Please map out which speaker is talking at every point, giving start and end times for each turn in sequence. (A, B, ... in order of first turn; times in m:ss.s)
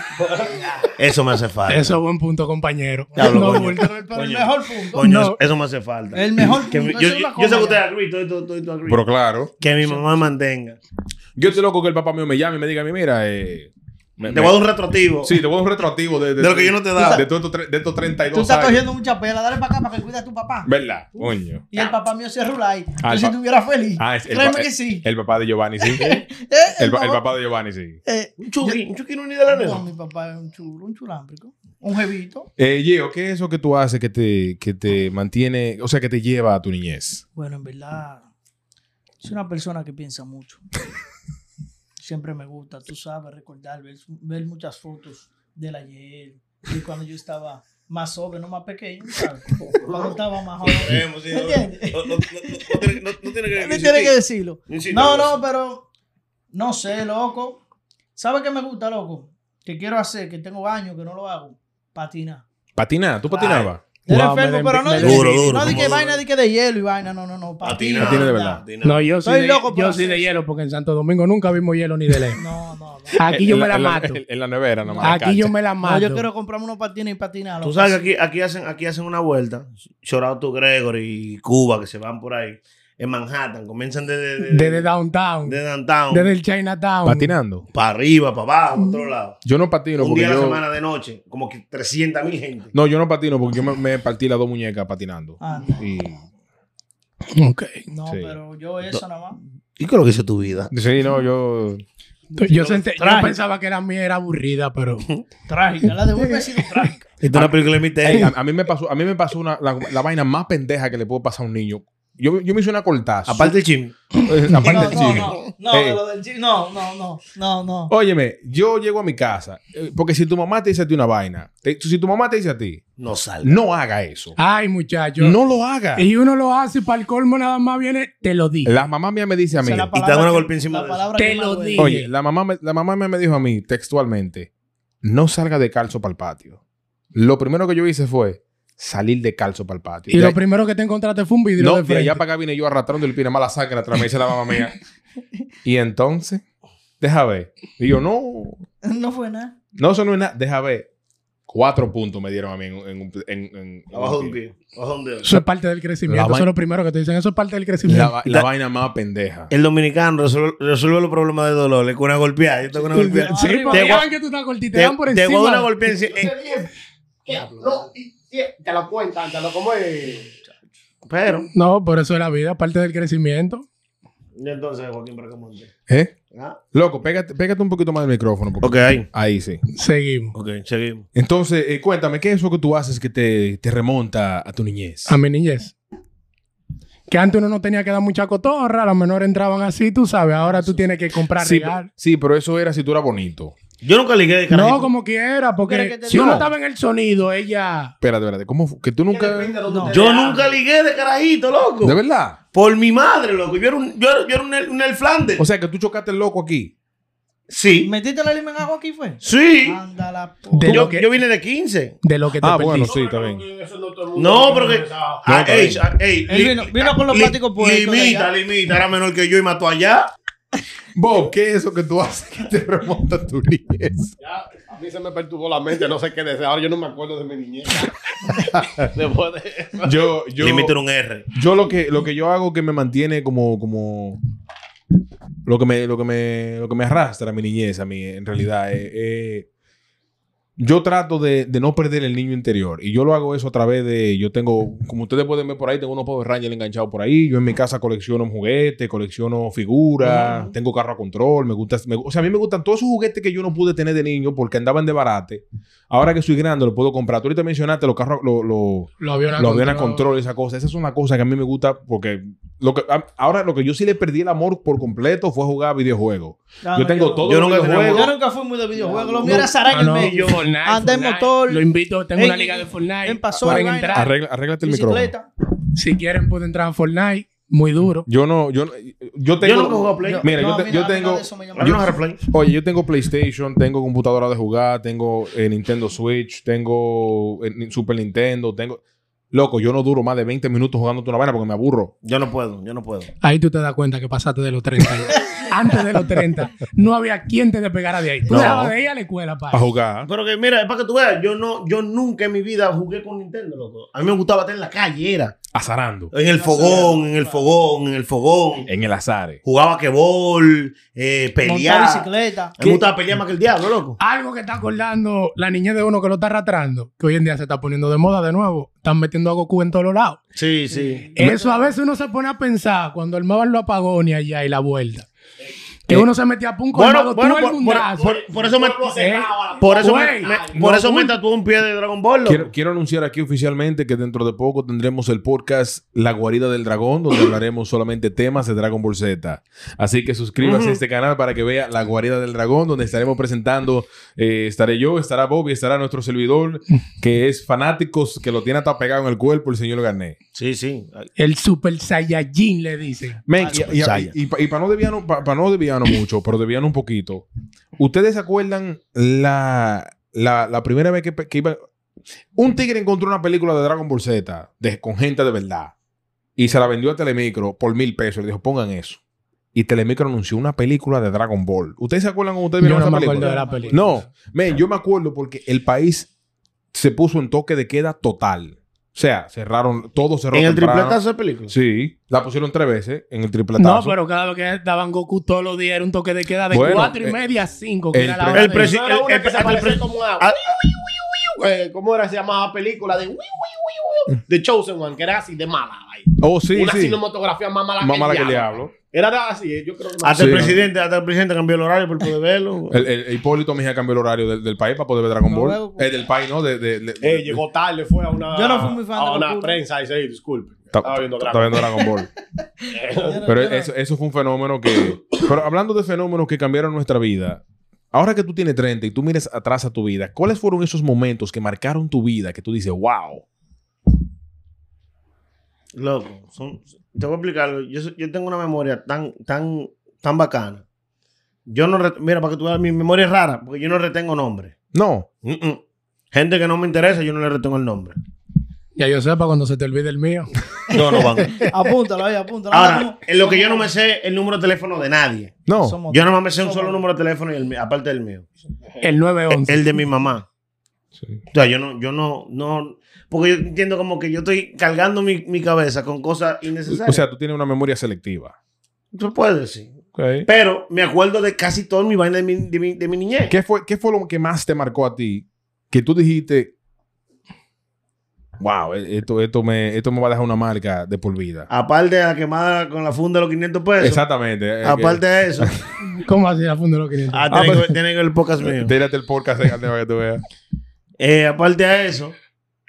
0:00.2-0:00.9 A
0:01.0-0:01.9 B
0:01.7-0:03.9 C
0:03.1-0:05.4 D
0:03.2-0:09.0 B
0:06.1-0:07.8 D
0:08.8-0:09.5 E
0:09.6-0:10.8 B
0:11.4-0:14.6 E
0:14.2-0:15.3 B
0:15.2-0:18.8 E
0:16.4-0:17.2 B
0:17.0-0:17.2 D
0:18.3-0:20.7 D
0:20.6-0:21.7 E
0:21.7-0:25.0 D
0:23.0-0:23.4 E
0:24.0-0:26.2 E
0:25.8-0:27.2 D
0:26.8-0:28.0 E
0:28.0-0:28.8 D
0:28.4-0:29.8 B
0:29.5-0:32.5 D
0:32.6-0:37.2 E
0:37.3-0:38.3 D
0:39.2-0:40.6 D
0:42.0-0:52.9 D
0:49.6-0:50.2 A
0:50.6-0:54.2 B
0:53.5-0:55.8 D
0:54.7-0:55.4 B
0:56.5-0:57.6 D
0:58.2-1:02.4 D
1:02.8-1:03.8 E
1:03.3-1:03.7 B
1:04.0-1:05.9 C
1:04.0-1:08.6 D
1:05.0-1:06.2 B
1:07.6-1:09.1 B
1:08.0-1:08.6 E
1:08.8-1:12.4 C
1:09.2-1:10.4 D
1:12.4-1:13.3 D
1:13.2-1:14.2 C
1:13.2-1:15.5 E
1:14.8-1:15.2 D
1:15.0-1:16.3 C
1:15.8-1:18.1 D
1:17.6-1:24.8 B
1:24.4-1:25.6 C
1:25.4-1:26.3 B
1:26.1-1:27.3 C
1:27.0-1:27.6 E
1:27.7-1:29.4 B
1:28.8-1:29.0 D
1:29.4-1:30.6 E
1:30.0-1:32.7 B
1:32.7-1:36.2 E
1:35.4-1:35.9 D
1:37.3-1:37.9 C
1:37.9-1:39.4 D
1:38.1-1:38.3 E
1:39.8-1:40.7 B
1:40.7-1:41.8 E
1:42.3-1:43.4 D
1:42.4-1:45.1 C
1:45.5-1:47.1 D
1:46.1-1:46.6 C
1:47.2-1:48.3 B
1:47.3-1:53.6 E
1:53.2-1:54.0 B
1:54.2-1:56.0 E
1:54.6-1:57.9 D
1:54.8-1:55.4 B
1:57.9-2:02.8 E
2:03.0-2:03.6 B
2:03.4-2:04.4 E
2:04.4-2:05.4 C
2:05.2-2:06.0 E
2:06.0-2:08.8 C
2:08.6-2:09.9 E
2:09.5-2:12.0 D
2:09.9-2:11.0 B
2:11.2-2:12.1 C
2:11.8-2:14.5 E
2:15.0-2:16.6 E
2:17.1-2:20.4 E
2:20.1-2:22.2 C
2:21.6-2:24.8 E
2:25.6-2:26.4 E
2:27.0-2:28.6 E
2:28.8-2:29.5 D
2:29.8-2:30.9 E
2:31.5-2:34.4 E
2:33.9-2:35.3 B
2:35.2-2:38.2 C
2:36.1-2:36.5 E
2:37.8-2:39.5 E
2:39.5-2:44.0 B
2:42.8-2:44.0 D
2:42.9-2:45.7 C
2:44.7-2:46.3 B
2:46.0-2:46.7 A
2:47.2-2:50.4 A
2:51.0-2:51.5 B
2:51.5-2:53.6 C
2:54.4-2:55.7 B
2:55.9-2:56.1 E
2:56.3-2:56.6 B
2:56.7-2:59.6 E
2:58.6-2:59.0 B
2:59.7-3:00.4 C
3:00.3-3:01.1 B
3:01.1-3:05.2 E
3:05.1-3:05.7 C
3:07.1-3:11.9 C
3:10.4-3:10.8 D
3:11.4-3:13.5 E
3:13.8-3:14.9 B
3:14.5-3:17.9 C
3:15.6-3:16.5 D
3:16.1-3:16.4 B
3:18.0-3:19.5 E
3:19.1-3:20.6 A
3:19.7-3:20.0 D
3:19.9-3:22.0 B
3:21.8-3:22.4 E
3:22.5-3:25.4 B
3:25.4-3:26.7 E
3:27.5-3:27.9 B
3:27.8-3:30.9 D
3:29.2-3:29.8 B
3:30.6-3:31.1 C
3:30.6-3:32.0 B
3:32.0-3:32.9 C
3:32.4-3:33.4 E
3:32.8-3:35.5 A
3:34.2-3:40.1 B
3:35.2-3:35.8 E
3:36.3-3:38.3 D
3:40.9-3:44.1 E
3:44.2-3:50.0 A
3:48.6-3:48.8 E
3:49.8-3:50.8 E
3:50.4-3:51.3 B
3:51.3-3:54.2 E
3:55.4-3:59.5 E
4:00.6-4:28.1 E
4:10.1-4:10.5 D
4:19.0-4:20.1 C
4:26.6-4:35.3 D
4:27.2-4:28.1 B
4:28.9-4:29.3 A
4:29.1-4:30.3 B
4:29.7-4:34.1 C
4:33.4-4:35.1 E
4:35.7-4:38.1 C
4:38.0-4:48.8 E
4:39.4-4:40.3 B
4:40.0-4:41.8 D
4:41.6-4:42.2 B
4:49.3-4:51.9 E
4:52.0-4:53.1 B
4:53.2-4:59.7 C
4:58.3-4:58.7 B
4:58.3-4:58.7 E
4:59.5-5:00.1 E
5:00.0-5:05.4 B
5:05.5-5:06.1 E
5:06.1-5:08.7 B
5:06.3-5:07.5 D
5:08.7-5:09.4 E
5:09.4-5:12.1 B
5:11.4-5:12.8 D
5:12.6-5:14.0 B
5:14.0-5:20.2 C
5:20.3-5:21.1 B
5:20.7-5:21.7 D
5:21.2-5:25.1 C
5:25.9-5:28.0 C
5:26.7-5:29.0 B
5:28.0-5:31.1 A
5:29.0-5:30.4 C
5:29.6-5:32.5 B
5:32.2-5:50.2 E
5:40.4-5:40.8 B
5:50.3-5:51.1 B
5:51.2-5:53.2 C
5:53.3-5:57.2 E
5:53.4-5:54.1 B
5:57.8-6:01.6 E
6:02.4-6:05.7 E
6:06.4-6:09.0 E
6:09.5-6:16.1 E
6:12.6-6:13.9 C
6:13.1-6:14.0 D
6:16.7-6:24.0 E
6:20.3-6:21.5 B
6:23.6-6:28.7 C
6:26.5-6:27.2 E
6:27.9-6:28.7 E
6:28.3-6:30.6 B
6:28.6-6:40.6 A
6:36.2-6:37.0 E
6:37.8-6:38.7 E
6:40.0-6:42.8 B
6:40.2-6:40.5 E
6:42.7-6:47.4 E
6:45.2-6:46.0 D
6:47.0-6:51.8 A
6:48.3-6:49.6 D
6:50.7-6:52.1 E
6:52.6-6:53.7 D
6:52.7-6:53.2 A
6:53.2-7:03.2 E
7:05.7-7:10.6 B
7:11.5-7:14.6 B
7:14.7-7:15.1 E
7:15.2-7:15.6 B
7:16.1-7:18.0 B
7:18.8-7:20.3 C
7:20.7-7:21.5 B
7:21.4-7:23.7 D
7:22.5-7:28.2 B
7:25.4-7:25.8 E
7:25.6-7:26.8 D
7:28.8-7:29.8 C
7:29.3-7:30.2 B
7:31.3-7:37.0 B
7:36.7-7:38.3 E
7:38.9-7:43.3 B
7:39.9-7:40.3 E
7:43.3-7:46.5 E
7:48.4-7:51.5 E
7:51.5-7:54.0 B
7:53.8-7:55.6 E
7:54.6-7:55.6 B
7:55.9-7:57.6 C
7:57.1-7:58.7 B
7:57.3-7:57.8 E
7:58.4-8:00.2 E
8:01.0-8:02.2 B